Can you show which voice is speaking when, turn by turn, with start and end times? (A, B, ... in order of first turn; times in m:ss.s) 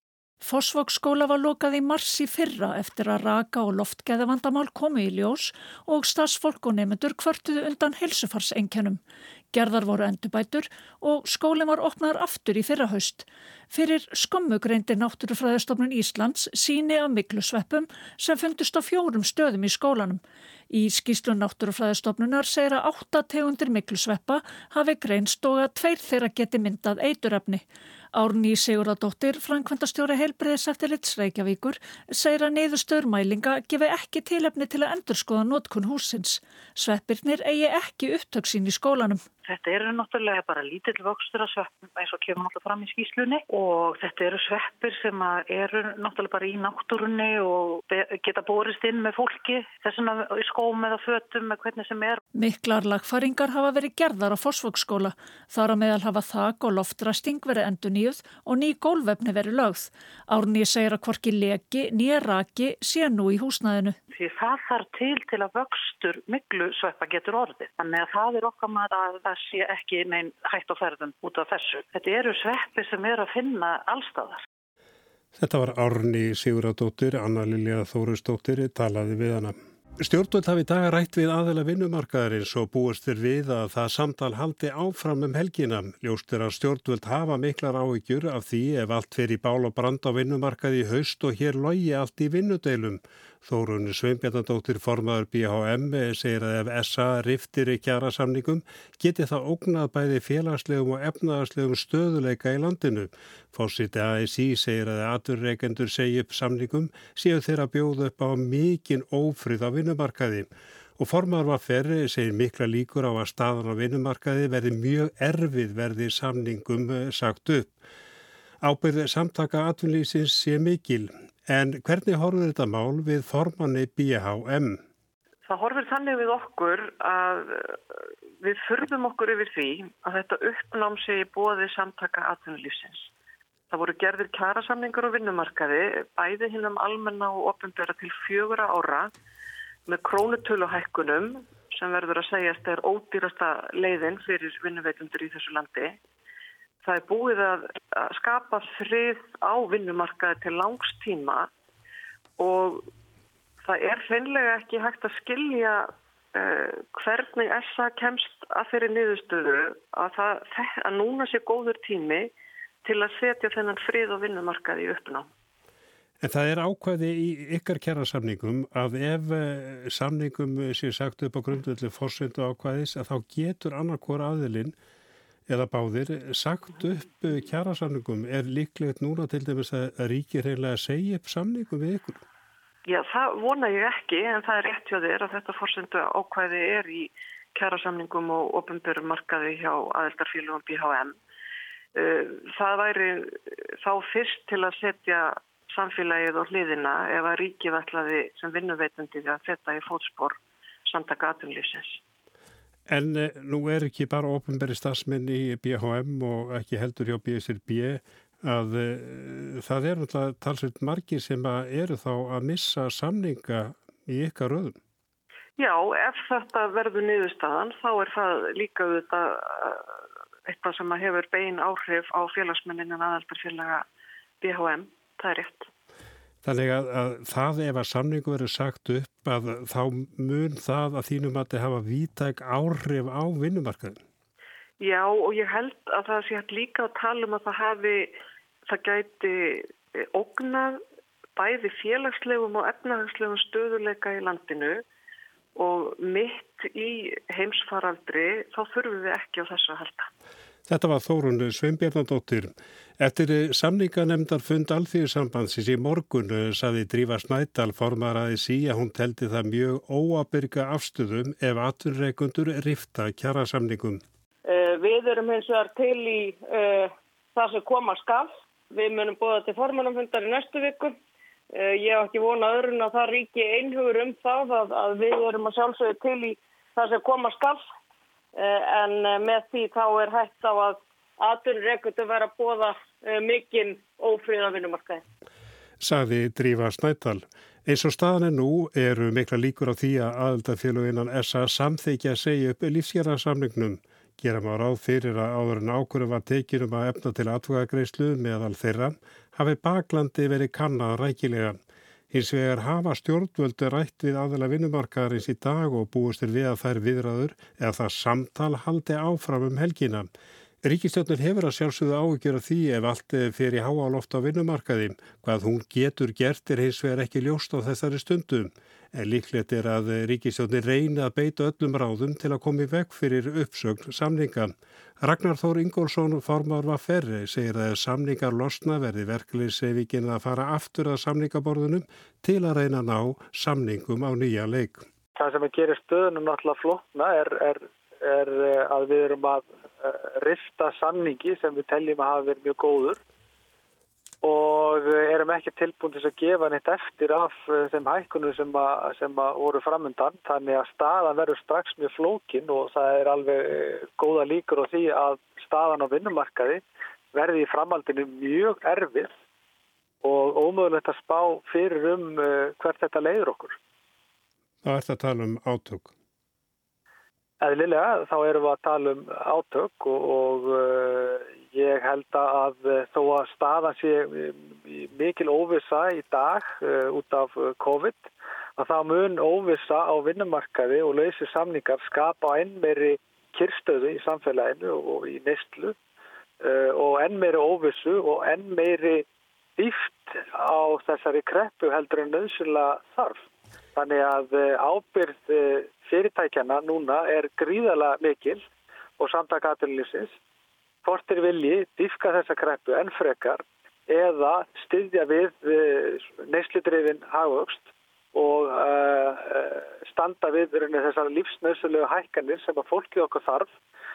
0:00.4-0:09.0 A
0:09.5-0:39.2 A
0:39.4-0:52.2 B
0:52.3-1:04.0 A
1:04.1-1:14.4 B
1:15.4-1:57.7 C
1:58.6-2:04.8 C
2:05.5-2:07.8 D
2:08.4-2:13.1 D
2:13.7-2:19.1 D
2:19.9-2:26.0 D
2:26.8-2:31.5 D
2:32.4-2:32.8 D
2:33.6-2:42.3 D
2:42.8-2:45.2 D
2:46.2-2:54.7 C
2:55.5-3:02.2 C
3:02.9-3:11.2 D
3:12.0-3:20.4 D
3:20.9-3:22.0 D
3:22.9-3:34.8 C
3:35.6-3:39.9 D
3:40.5-3:43.8 D
3:44.4-3:45.7 D
3:46.4-3:54.0 C
3:54.8-3:58.1 D
3:58.7-4:00.8 D
4:01.4-4:04.8 D
4:05.6-4:10.1 D
4:10.6-4:24.0 C
4:24.4-4:31.0 E
4:31.5-4:37.6 E
4:38.4-4:45.0 E
4:45.8-5:01.6 C
5:02.1-5:10.1 C
5:10.6-5:34.8 C
5:35.2-5:43.0 F
5:44.2-5:56.6 F
5:57.1-5:59.1 F
6:00.0-6:03.6 F
6:04.6-6:05.9 C
6:07.4-6:25.7 F
6:26.4-6:29.0 F
6:29.6-6:38.4 F
6:39.0-6:40.2 F
6:40.8-6:53.5 F